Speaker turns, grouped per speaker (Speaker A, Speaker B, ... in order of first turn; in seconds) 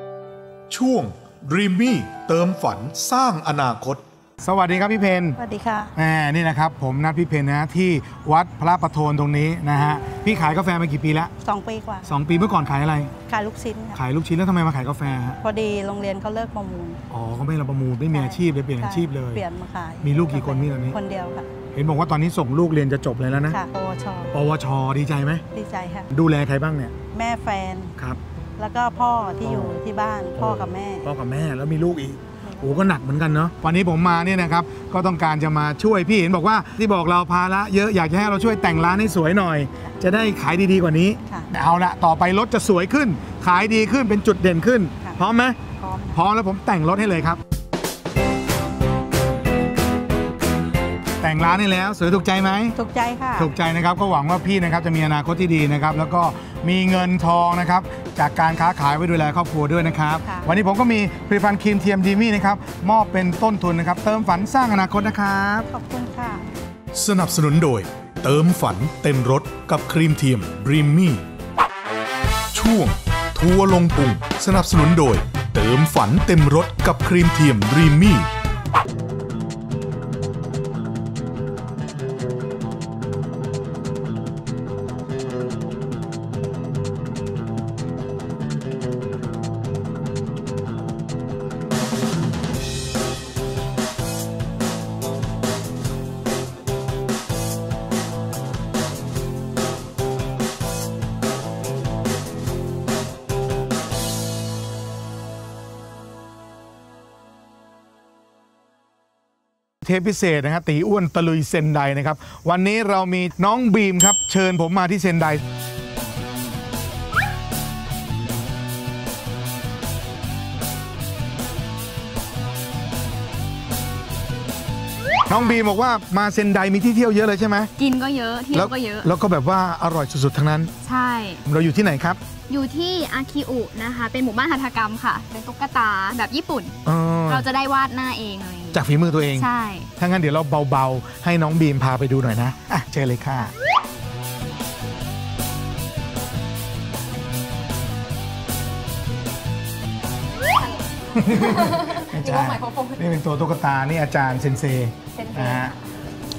Speaker A: 0.7-4.0, 67.0-71.2, 72.5-78.2
Speaker B: 1.5-2.2, 3.7-5.4, 6.0-11.3, 12.1-13.1, 13.9-15.4, 17.1-19.4, 20.0-20.9, 21.7-23.6, 24.3-25.4, 26.1-26.9, 29.4-29.8, 30.4-45.6, 46.1-47.4, 51.2-52.7, 53.4-65.7, 67.0-70.8, 74.2-78.1, 109.8-115.4, 125.3-127.7, 128.5-130.7, 131.4-132.2, 136.8-137.4, 138.7-143.5, 151.1-155.7
Speaker C: 5.4-5.9, 11.4-12.2, 13.3-14.0, 15.4-17.0, 18.1-21.5, 23.5-24.3, 25.5-26.1, 27.1-27.9, 28.6-31.1, 32.4-32.9, 45.8-46.2, 52.7-53.5, 65.7-66.5
Speaker D: 127.8-129.1, 130.8-131.4, 132.5-136.8, 137.3-139.9, 151.2-153.0, 155.1-155.8